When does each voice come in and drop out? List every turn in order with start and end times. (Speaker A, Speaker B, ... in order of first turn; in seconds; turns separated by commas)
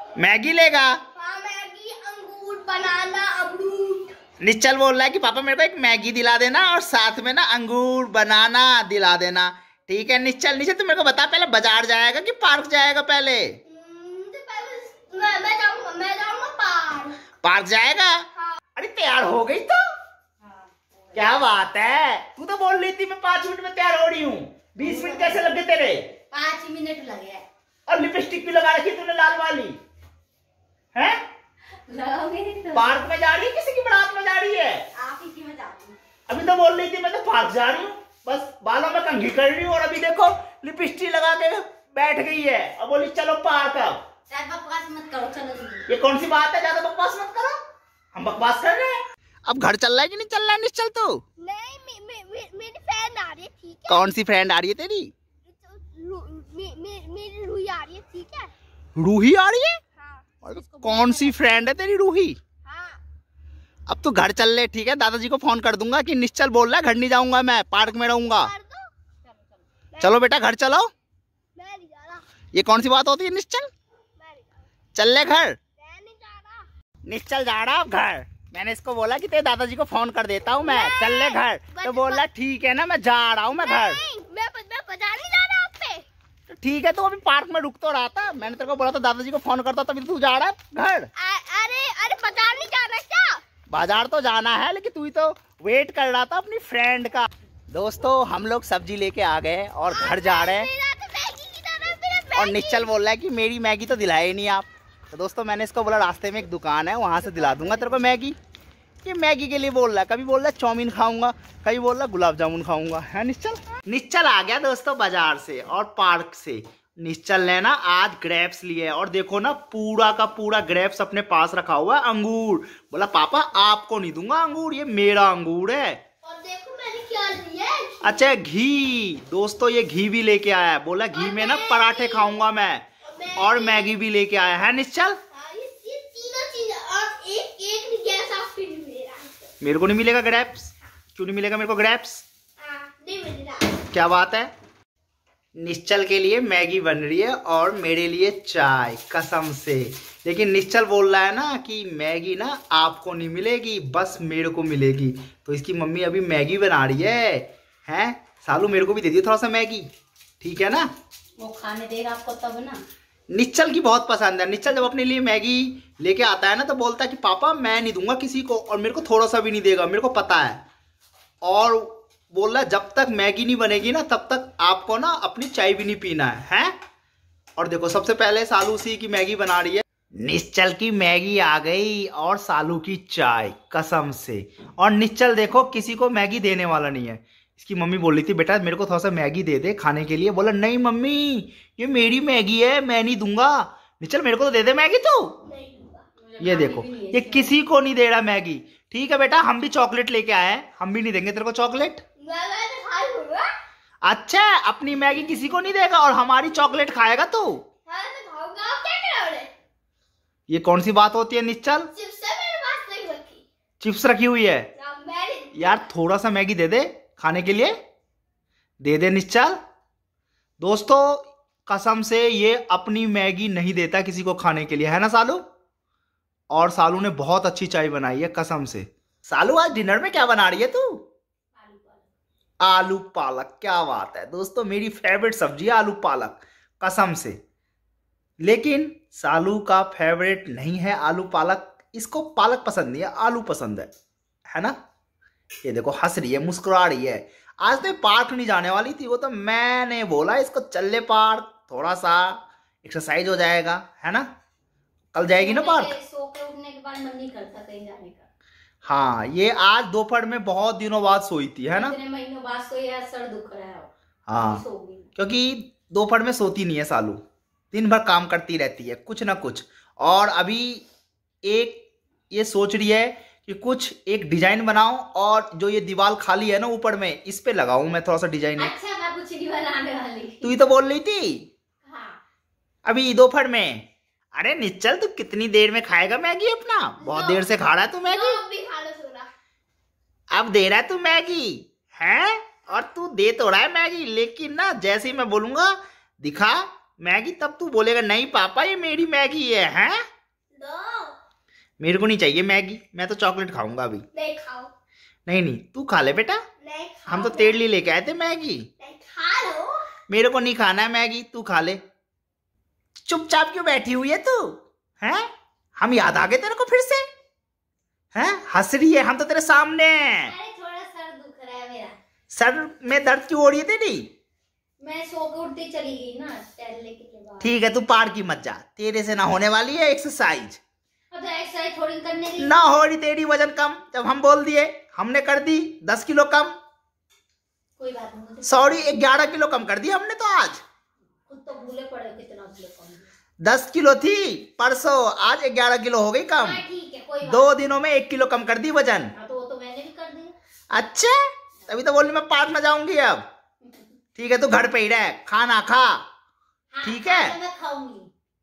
Speaker A: 0.2-1.0, Speaker B: 1.1-4.2, Speaker A: 4.4-13.5, Speaker B: 13.7-17.2, Speaker A: 17.4-18.2, Speaker A: 18.8-19.8, Speaker C: 20.4-21.2, Speaker A: 21.1-26.1, Speaker C: 24.8-25.5, Speaker C: 26.3-27.4, Speaker A: 27.9-29.8, Speaker A: 30.9-31.2, Speaker C: 31.9-33.0, Speaker A: 32.7-34.8, Speaker C: 34.9-36.0, Speaker A: 36.3-44.0, Speaker C: 44.3-45.9, Speaker A: 45.9-47.6, Speaker A: 48.1-51.2, Speaker B: 51.4-54.2, Speaker A: 53.9-55.1, Speaker B: 55.4-58.5, Speaker A: 59.0-59.8, Speaker B: 60.0-60.3, Speaker A: 60.4-62.4, Speaker C: 60.4-61.8, Speaker B: 62.6-63.0, Speaker A: 63.9-68.5, Speaker B: 68.3-68.9, Speaker C: 69.2-69.6, Speaker B: 69.9-70.2, Speaker A: 70.0-70.9, Speaker B: 71.6-72.2, Speaker A: 72.5-73.7, Speaker B: 74.2-74.6, Speaker A: 74.9-75.6, Speaker B: 75.8-76.7, Speaker A: 77.1-84.0, Speaker B: 80.6-82.2, Speaker B: 83.5-86.0, Speaker A: 86.5-91.1, Speaker B: 91.2-93.4, Speaker A: 93.7-100.7, Speaker B: 99.8-102.9, Speaker A: 102.4-108.4, Speaker A: 109.0-126.0, Speaker B: 126.2-128.3, Speaker A: 128.0-132.8, Speaker B: 131.1-132.4, Speaker B: 133.1-133.9, Speaker A: 133.4-135.2, Speaker B: 135.3-139.5, Speaker A: 139.6-142.2, Speaker B: 142.6-143.8, Speaker A: 143.9-144.5, Speaker A: 145.6-159.9, Speaker A: 160.4-160.9, Speaker C: 161.4-162.8, Speaker A: 163.3-170.6, Speaker A: 171.4-176.7, Speaker A: 177.6-195.4, Speaker B: 195.4-196.1, Speaker C: 196.2-197.6, Speaker A: 196.4-202.0, Speaker B: 202.2-203.5, Speaker A: 204.1-207.6, Speaker B: 207.9-209.5, Speaker A: 210.5-211.9, Speaker B: 211.9-213.4, Speaker A: 213.8-214.7, Speaker B: 214.8-215.8, Speaker A: 215.5-217.7, Speaker A: 218.8-219.6, Speaker A: 220.6-225.4, Speaker A: 226.5-231.0, Speaker C: 231.6-232.1, Speaker A: 232.6-237.4, Speaker A: 238.4-243.9, Speaker A: 244.5-244.8, Speaker A: 245.6-254.3, Speaker A: 255.1-255.9, Speaker C: 255.3-258.3, Speaker A: 258.8-261.9, Speaker C: 261.7-265.1, Speaker A: 264.3-264.6, Speaker A: 265.1-267.2, Speaker A: 267.7-270.8, Speaker A: 271.4-278.7, Speaker C: 278.6-280.5, Speaker A: 280.4-281.5, Speaker C: 281.8-282.2, Speaker A: 282.9-288.4, Speaker B: 287.0-287.5, Speaker B: 288.1-289.3, Speaker A: 290.3-300.0, Speaker B: 300.6-301.1, Speaker A: 301.8-304.0, Speaker B: 304.1-304.7, Speaker A: 305.3-306.4, Speaker B: 306.6-307.6, Speaker A: 307.1-308.7, Speaker B: 308.8-309.8, Speaker A: 310.1-311.8, Speaker A: 313.1-315.2, Speaker A: 315.8-317.0, Speaker A: 318.1-320.3, Speaker C: 320.2-322.0, Speaker A: 322.3-324.1, Speaker C: 324.8-327.6, Speaker A: 327.4-330.6, Speaker C: 331.1-332.5, Speaker A: 332.4-336.5, Speaker C: 337.8-339.0, Speaker A: 338.4-340.6, Speaker C: 341.3-343.1, Speaker A: 343.4-346.6, Speaker C: 346.4-347.6, Speaker A: 347.2-349.1, Speaker C: 349.1-350.3, Speaker A: 350.7-353.2, Speaker A: 354.1-356.0, Speaker C: 356.7-358.1, Speaker A: 356.8-357.4